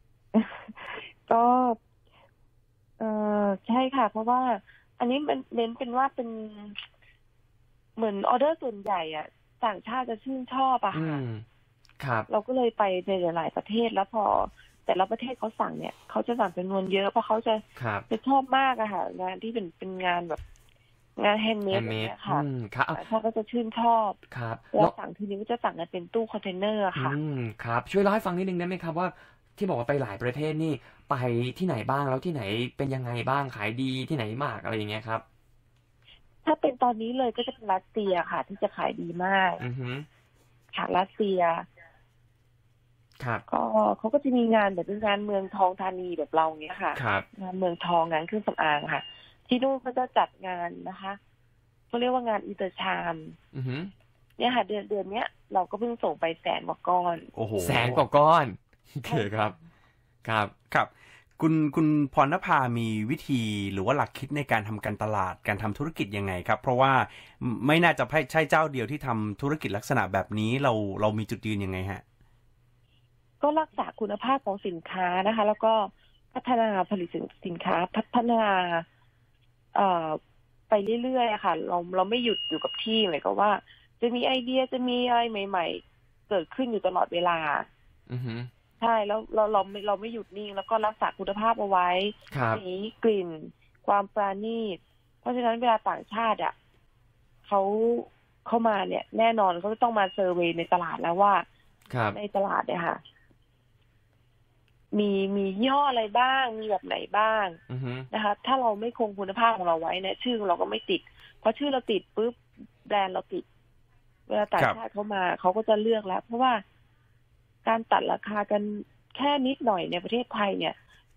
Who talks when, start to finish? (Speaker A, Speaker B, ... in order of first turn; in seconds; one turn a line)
Speaker A: 0.3-1.8
Speaker A: 3.0-6.8
Speaker A: 8.0-11.2
Speaker B: 10.9-11.4
Speaker B: 12.0-12.3
Speaker A: 12.3-20.4
Speaker B: 17.8-18.1
Speaker A: 21.2-24.2
Speaker B: 21.7-23.1
Speaker B: 24.3-24.9
Speaker A: 24.7-27.2
Speaker B: 26.9-35.2
Speaker A: 36.4-39.6
Speaker B: 39.6-40.1
Speaker A: 40.7-41.6
Speaker B: 43.2-43.4
Speaker A: 43.5-51.2
Speaker B: 47.0-47.3
Speaker A: 51.9-53.4
Speaker B: 53.5-53.9
Speaker A: 54.4-57.3
Speaker C: 57.4-58.0
Speaker B: 57.6-59.6
Speaker A: 59.0-59.3
Speaker B: 60.2-60.5
Speaker C: 60.7-72.0
Speaker A: 73.4-78.9
Speaker A: 79.7-87.7
Speaker B: 88.1-88.5
Speaker A: 88.8-96.5
Speaker B: 92.3-92.6
Speaker A: 97.5-101.5
Speaker B: 101.9-102.2
Speaker A: 102.1-103.0
Speaker A: 104.9-107.6
Speaker B: 107.7-108.1
Speaker A: 108.1-113.5
Speaker A: 114.3-116.6
Speaker A: 117.7-120.8